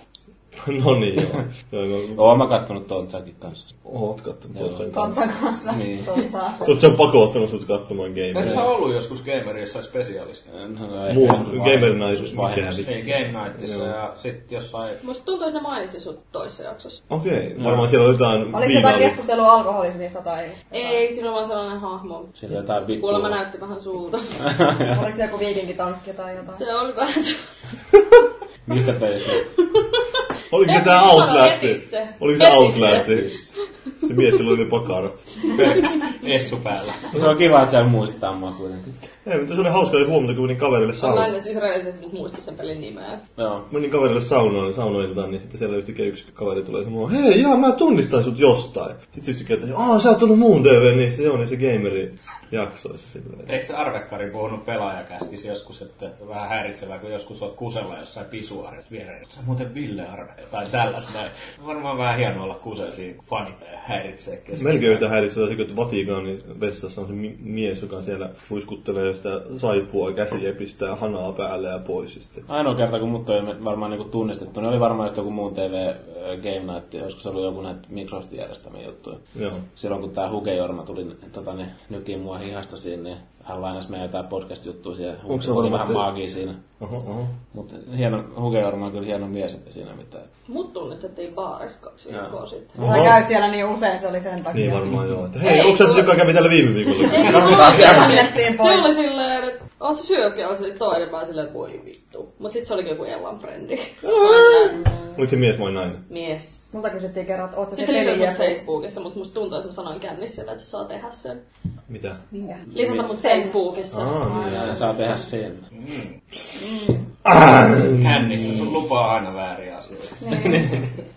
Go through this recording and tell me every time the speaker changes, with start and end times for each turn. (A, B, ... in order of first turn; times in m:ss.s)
0:00.6-0:02.3 A
0:02.2-0:03.7 B
0:03.8-0:05.2 A
0:04.6-0:04.9 B
0:04.9-0:06.9 C
0:05.7-0:06.1 B
0:06.6-0:08.7 A
0:08.4-0:10.5 D
0:10.5-0:12.9 B
0:11.1-0:13.1 A
0:12.8-0:15.0 D
0:13.6-0:13.9 A
0:15.0-0:17.0 E
0:17.1-0:19.2 A
0:18.5-0:21.0 C
0:20.7-0:22.3 E
0:22.4-0:23.4 B
0:23.0-0:24.4 E
0:24.4-0:24.9 B
0:24.9-0:26.6 C
0:26.5-0:27.4 E
0:28.7-0:29.5 B
0:29.7-0:30.1 E
0:30.5-0:33.3 A
0:30.6-0:33.3 E
0:33.0-0:33.5 B
0:34.0-0:35.3 A
0:35.4-0:37.2 D
0:37.1-0:39.0 B
0:39.2-0:41.3 A
0:41.0-0:43.2 E
0:43.4-0:43.7 B
0:43.7-0:53.6 A
0:53.5-1:05.0 D
1:04.6-1:12.4 A
1:12.5-1:19.2 B
1:19.4-1:19.6 A
1:19.8-1:26.6 B
1:25.3-1:26.1 A
1:26.8-1:27.4 A
1:27.5-1:30.3 B
1:30.5-1:32.8 E
1:32.8-1:33.3 A
1:32.8-1:35.1 C
1:34.5-1:37.9 A
1:35.4-1:36.3 E
1:37.0-1:45.2 E
1:37.1-1:39.0 C
1:44.0-1:46.0 A
1:46.1-1:46.6 E
1:46.7-1:48.6 C
1:47.8-1:51.4 E
1:51.9-1:52.2 A
1:52.3-1:53.6 C
1:52.7-1:55.2 E
1:53.9-1:54.8 A
1:54.5-1:55.7 B
1:55.7-1:56.1 D
1:56.6-1:57.1 C
1:57.2-1:58.7 A
1:57.8-2:00.7 D
2:00.2-2:00.9 C